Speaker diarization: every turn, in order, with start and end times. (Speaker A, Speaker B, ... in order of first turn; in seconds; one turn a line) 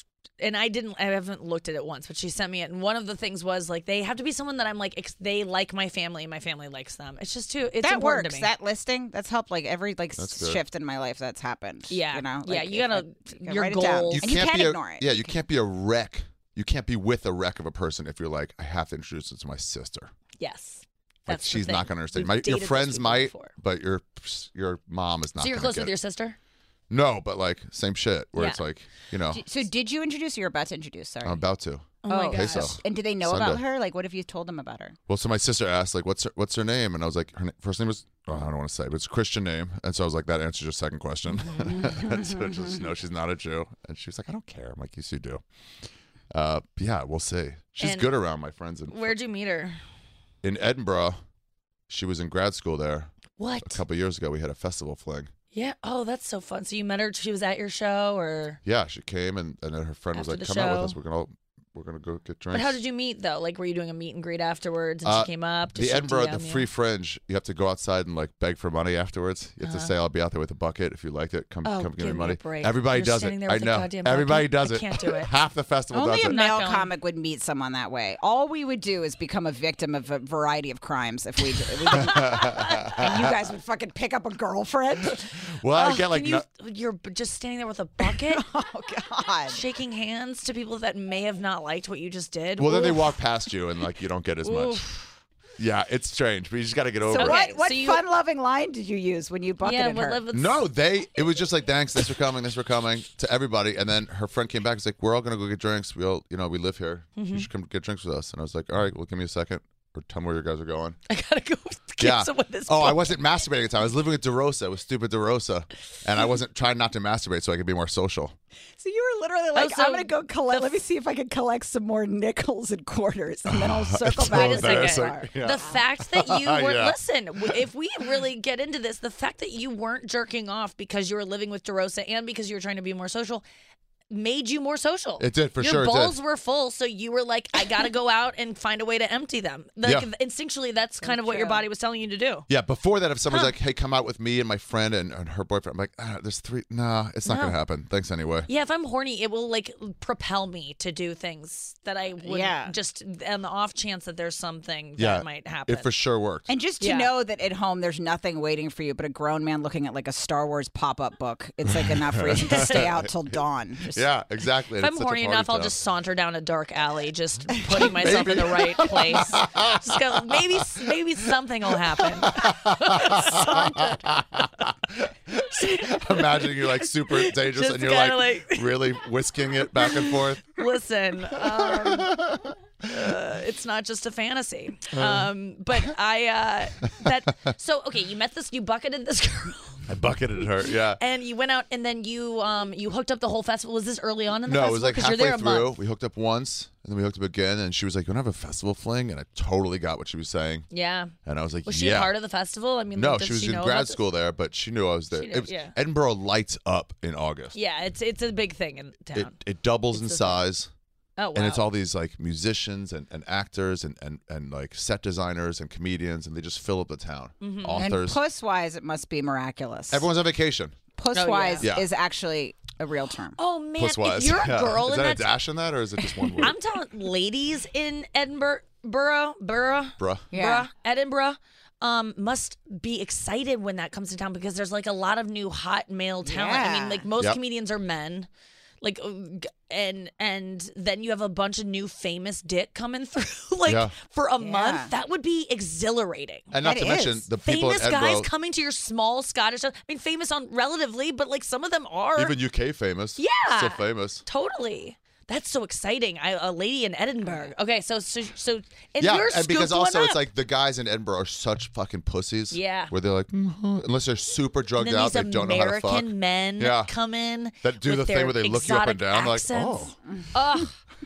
Speaker A: 0.4-8.5
Speaker B: 7.8-15.3
Speaker C: 10.2-10.6
Speaker A: 11.9-14.3
Speaker C: 14.1-20.1
Speaker A: 20.4-23.5
Speaker C: 21.3-25.9
Speaker A: 25.4-26.4
Speaker C: 26.9-29.4
Speaker B: 29.3-31.4
Speaker C: 31.2-33.6
Speaker A: 32.0-32.8
Speaker B: 32.1-35.0
Speaker C: 35.1-49.1
Speaker A: 47.8-48.1
Speaker A: 48.9-49.8
Speaker C: 50.4-51.2
Speaker C: 51.9-55.3
Speaker A: 53.4-53.8
Speaker A: 55.5-58.6
Speaker C: 58.6-62.8
Speaker A: 60.1-61.0
Speaker A: 62.5-66.7
Speaker C: 65.0-76.4
Speaker A: 69.6-69.9
Speaker A: 71.6-75.3
Speaker B: 75.9-85.2
Speaker A: 76.2-76.9
Speaker C: 81.9-83.3
Speaker C: 85.5-86.4
Speaker A: 85.8-88.4
Speaker B: 88.0-89.6
Speaker A: 89.5-93.1
Speaker C: 92.6-94.9
Speaker A: 94.4-95.0
Speaker C: 95.6-97.4
Speaker B: 97.1-100.2
Speaker A: 97.1-98.0
Speaker A: 99.6-100.6
Speaker C: 100.3-111.0
Speaker A: 107.2-107.5
Speaker A: 111.1-113.1
Speaker C: 112.0-118.4
Speaker B: 118.7-125.8
Speaker A: 119.5-120.8
Speaker C: 123.5-127.5
Speaker A: 124.2-133.4
Speaker A: 134.1-142.4
Speaker C: 135.2-136.2
Speaker C: 139.8-140.1
Speaker B: 141.0-141.6
Speaker C: 142.5-148.5
Speaker A: 147.2-147.6
Speaker A: 148.5-155.9
Speaker B: 152.2-152.7
Speaker C: 155.0-156.5
Speaker B: 156.5-164.1
Speaker A: 156.8-157.1
Speaker C: 161.8-163.3
Speaker A: 162.4-162.9
Speaker C: 163.8-165.8
Speaker A: 164.8-174.1
Speaker C: 167.6-170.9
Speaker C: 172.0-180.5
Speaker A: 175.6-176.4
Speaker A: 177.1-178.9
Speaker A: 179.7-182.1
Speaker C: 181.3-182.5
Speaker A: 182.9-189.8
Speaker C: 184.9-185.3
Speaker C: 189.9-191.0
Speaker A: 191.0-195.7
Speaker C: 194.4-200.7
Speaker A: 200.7-201.1
Speaker C: 201.2-202.2
Speaker A: 201.6-204.0
Speaker C: 202.9-207.6
Speaker A: 205.1-205.7
Speaker A: 207.5-209.3
Speaker C: 209.1-210.7
Speaker A: 209.9-210.4
Speaker A: 211.2-211.7
Speaker C: 211.3-218.2
Speaker A: 217.4-217.9
Speaker B: 217.8-220.1
Speaker C: 219.9-220.8
Speaker B: 221.0-223.4
Speaker A: 221.1-221.7
Speaker C: 221.6-221.9
Speaker A: 223.4-225.3
Speaker C: 223.8-226.6
Speaker A: 226.4-238.3
Speaker C: 230.0-230.3
Speaker B: 230.3-230.7
Speaker B: 236.2-237.1
Speaker A: 238.8-246.5
Speaker C: 243.7-243.9
Speaker B: 244.4-244.9
Speaker C: 246.5-248.3
Speaker B: 246.6-247.2
Speaker A: 247.3-252.3
Speaker C: 252.2-254.2
Speaker A: 253.2-260.2
Speaker C: 259.0-266.9
Speaker A: 262.5-262.9
Speaker A: 264.8-270.8
Speaker C: 267.6-269.9